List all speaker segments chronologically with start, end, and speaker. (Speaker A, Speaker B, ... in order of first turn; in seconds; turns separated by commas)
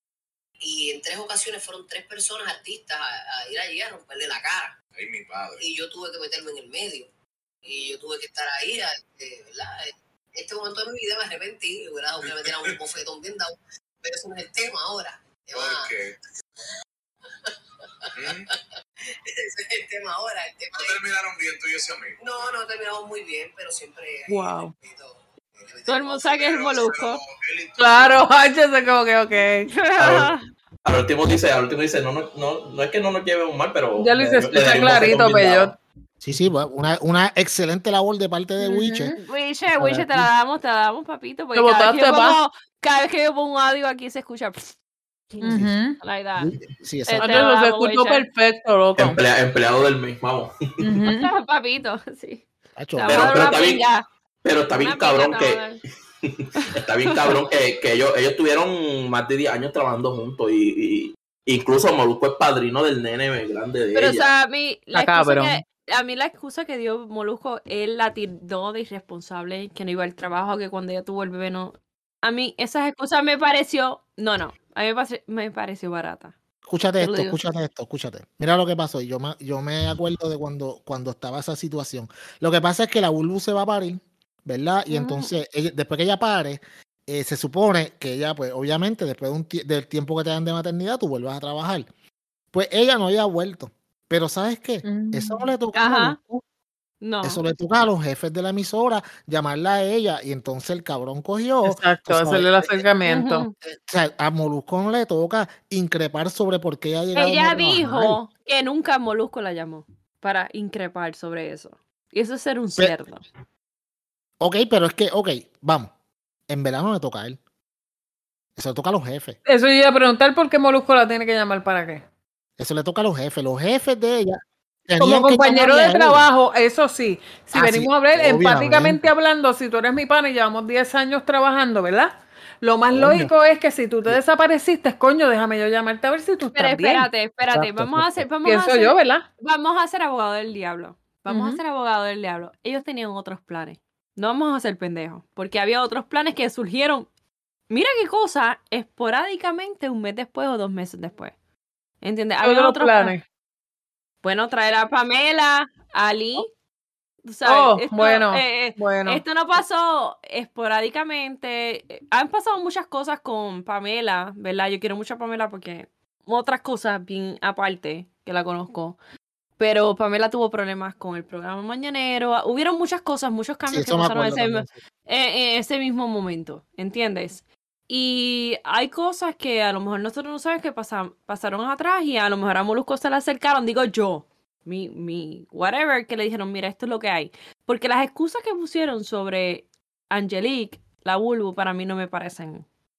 Speaker A: 0.6-4.8, Speaker B: 4.9-5.6, Speaker A: 5.6-7.1, Speaker A: 7.6-15.9, Speaker B: 12.3-12.7, Speaker B: 15.5-16.1, Speaker A: 17.4-21.0, Speaker B: 18.2-18.5, Speaker B: 20.7-22.2, Speaker A: 22.2-26.5, Speaker C: 24.3-24.7, Speaker D: 25.9-27.2, Speaker B: 26.4-28.2, Speaker C: 27.8-29.7, Speaker D: 29.7-30.4, Speaker E: 30.0-30.3, Speaker E: 30.8-35.8, Speaker C: 34.0-35.7, Speaker F: 36.2-39.1, Speaker C: 38.6-39.1, Speaker D: 39.1-44.7, Speaker F: 39.7-40.3, Speaker C: 41.5-42.4, Speaker D: 45.3-48.2, Speaker C: 45.4-46.0, Speaker F: 46.4-47.5, Speaker C: 47.2-49.2, Speaker E: 49.0-50.5, Speaker C: 50.8-51.3, Speaker D: 51.0-54.0, Speaker F: 52.8-53.5, Speaker E: 53.1-53.9, Speaker E: 54.4-55.6, Speaker D: 54.8-55.8, Speaker E: 56.2-64.3, Speaker D: 57.1-57.4, Speaker D: 63.9-76.3, Speaker C: 64.9-65.6, Speaker F: 76.6-91.9, Speaker D: 77.0-77.4, Speaker D: 84.9-85.3, Speaker F: 92.5-96.4, Speaker C: 94.8-95.5, Speaker D: 95.7-96.2, Speaker D: 97.0-97.4, Speaker F: 97.2-102.8, Speaker C: 101.6-103.4, Speaker D: 103.0-103.5, Speaker F: 103.6-108.2, Speaker D: 107.1-113.2, Speaker F: 114.4-115.9, Speaker F: 116.5-117.4, Speaker F: 118.5-119.4, Speaker C: 119.5-122.0, Speaker F: 122.6-126.3, Speaker C: 125.0-137.1, Speaker F: 127.5-129.1, Speaker F: 132.9-133.3, Speaker D: 136.5-147.1, Speaker F: 137.5-138.2, Speaker C: 138.4-139.2, Speaker C: 141.3-141.6, Speaker D: 147.7-151.3, Speaker D: 152.0-153.2, Speaker C: 152.4-153.2, Speaker D: 154.2-156.5, Speaker D: 157.2-169.0, Speaker C: 157.4-159.2, Speaker D: 169.6-192.6, Speaker F: 173.7-174.7